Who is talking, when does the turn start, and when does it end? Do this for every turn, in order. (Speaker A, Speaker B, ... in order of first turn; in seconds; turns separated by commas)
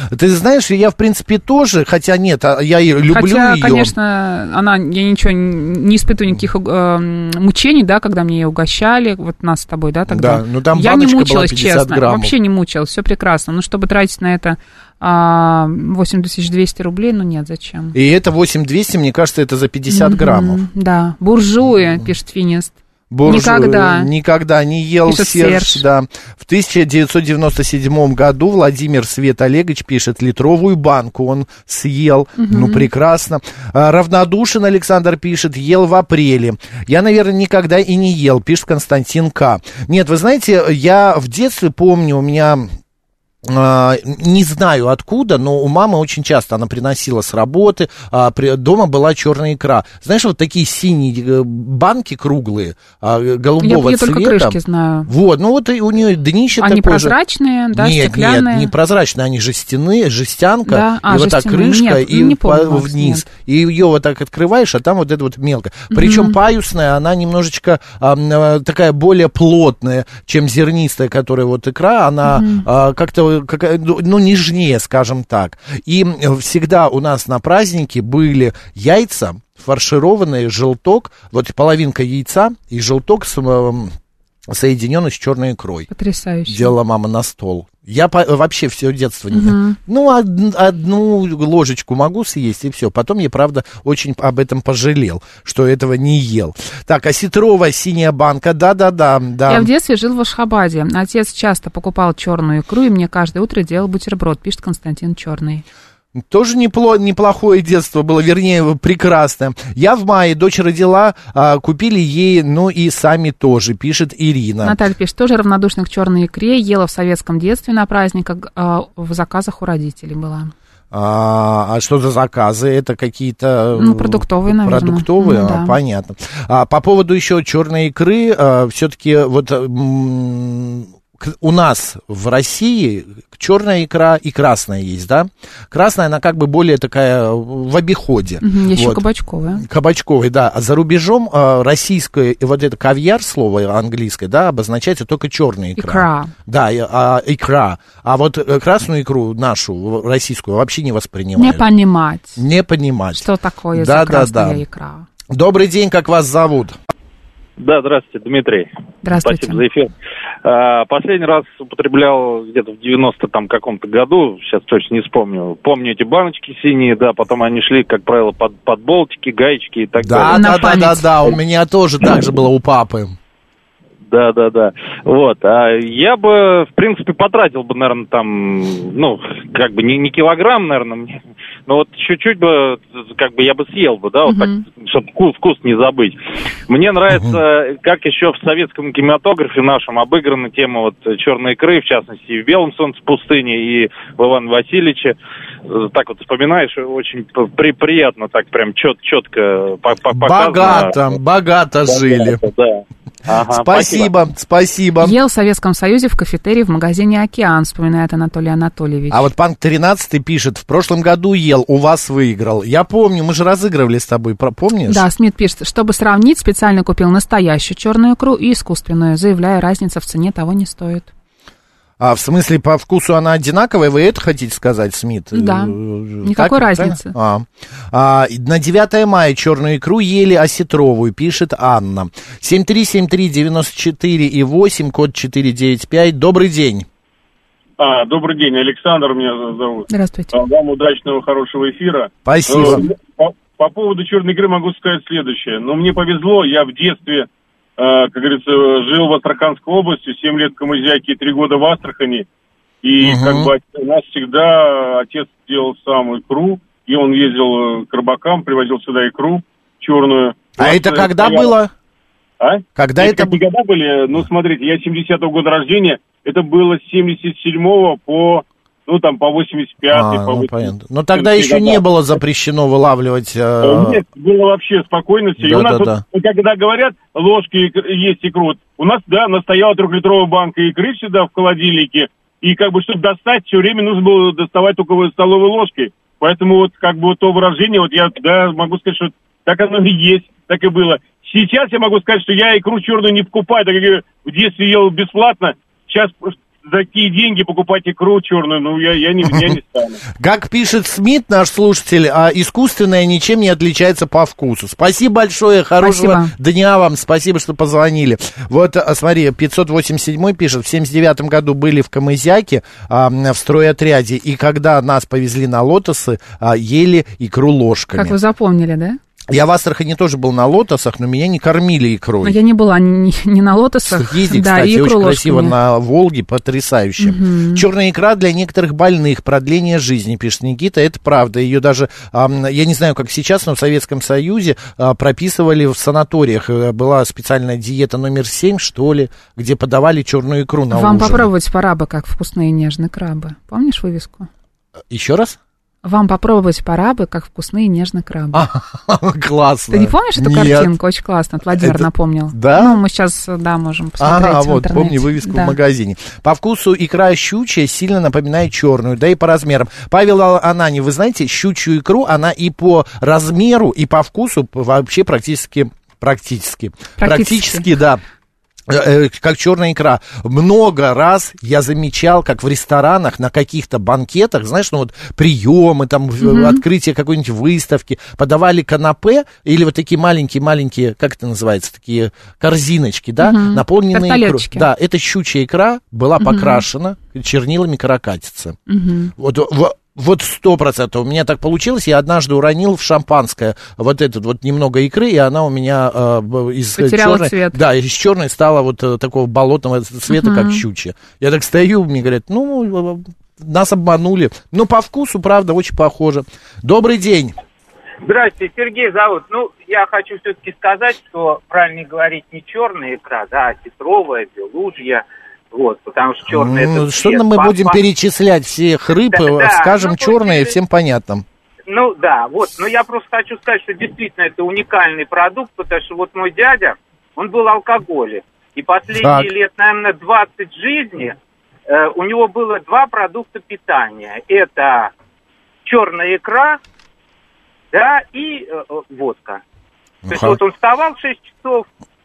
Speaker A: 0.1-3.9, Speaker B: 3.1-17.9, Speaker A: 10.1-12.3, Speaker A: 17.9-20.6, Speaker B: 19.9-24.1, Speaker A: 23.1-42.7, Speaker B: 25.1-25.8, Speaker B: 32.4-32.9, Speaker A: 43.4-57.2, Speaker B: 53.6-55.1, Speaker B: 56.6-58.7, Speaker A: 57.7-83.9, Speaker B: 60.7-63.2, Speaker B: 65.9-66.4, Speaker B: 72.3-72.7, Speaker A: 84.5-85.9, Speaker B: 85.9-86.7, Speaker A: 86.5-99.7, Speaker B: 89.3-89.8, Speaker B: 99.5-105.6, Speaker A: 106.2-114.8, Speaker B: 114.6-120.5, Speaker A: 120.9-139.0, Speaker B: 123.8-125.8, Speaker B: 138.4-139.6, Speaker A: 139.6-151.7, Speaker B: 145.8-146.3, Speaker B: 151.4-152.4, Speaker A: 152.4-154.6, Speaker B: 153.2-155.1, Speaker A: 155.3-156.8, Speaker C: 157.6-158.7, Speaker B: 159.0-159.6, Speaker C: 159.2-159.9, Speaker C: 160.4-170.7, Speaker A: 170.0-173.2, Speaker B: 170.3-171.1, Speaker C: 174.1-186.2, Speaker B: 184.3-184.6, Speaker C: 186.7-195.2, Speaker C: 195.7-201.2, Speaker A: 200.1-202.4, Speaker C: 201.9-204.1, Speaker A: 203.5-205.2, Speaker B: 205.0-209.3, Speaker A: 209.1-215.1, Speaker B: 214.9-221.1, Speaker A: 222.0-236.9, Speaker B: 225.3-227.1, Speaker D: 237.8-247.3, Speaker B: 239.9-240.3, Speaker A: 242.3-242.8, Speaker D: 247.8-252.2, Speaker D: 252.8-261.5, Speaker A: 253.0-253.5, Speaker A: 260.6-261.7, Speaker D: 262.4-271.8, Speaker A: 262.8-263.4, Speaker A: 269.9-274.0, Speaker D: 273.6-300.0, Speaker A: 275.4-276.0, Speaker A: 300.1-318.2, Speaker B: 305.8-306.3, Speaker B: 317.9-319.0, Speaker A: 319.3-322.4, Speaker B: 322.2-325.6, Speaker A: 323.9-341.3, Speaker B: 327.0-327.6, Speaker B: 340.7-344.3, Speaker A: 344.9-345.4, Speaker B: 345.8-348.5, Speaker A: 348.3-350.7, Speaker B: 349.7-355.6, Speaker A: 351.5-352.8, Speaker A: 354.0-368.0, Speaker B: 367.0-367.7, Speaker A: 368.7-388.6, Speaker B: 376.2-376.6, Speaker B: 383.2-384.7, Speaker B: 386.2-386.6, Speaker B: 388.7-389.1, Speaker A: 389.2-407.4, Speaker B: 396.8-397.6, Speaker B: 400.1-400.6, Speaker E: 408.0-417.8, Speaker A: 416.3-421.2, Speaker E: 419.1-420.6, Speaker E: 421.7-431.1, Speaker A: 428.9-429.3, Speaker E: 431.7-434.9, Speaker E: 435.6-436.6, Speaker E: 437.7-439.4, Speaker A: 440.1-440.4, Speaker E: 440.1-441.6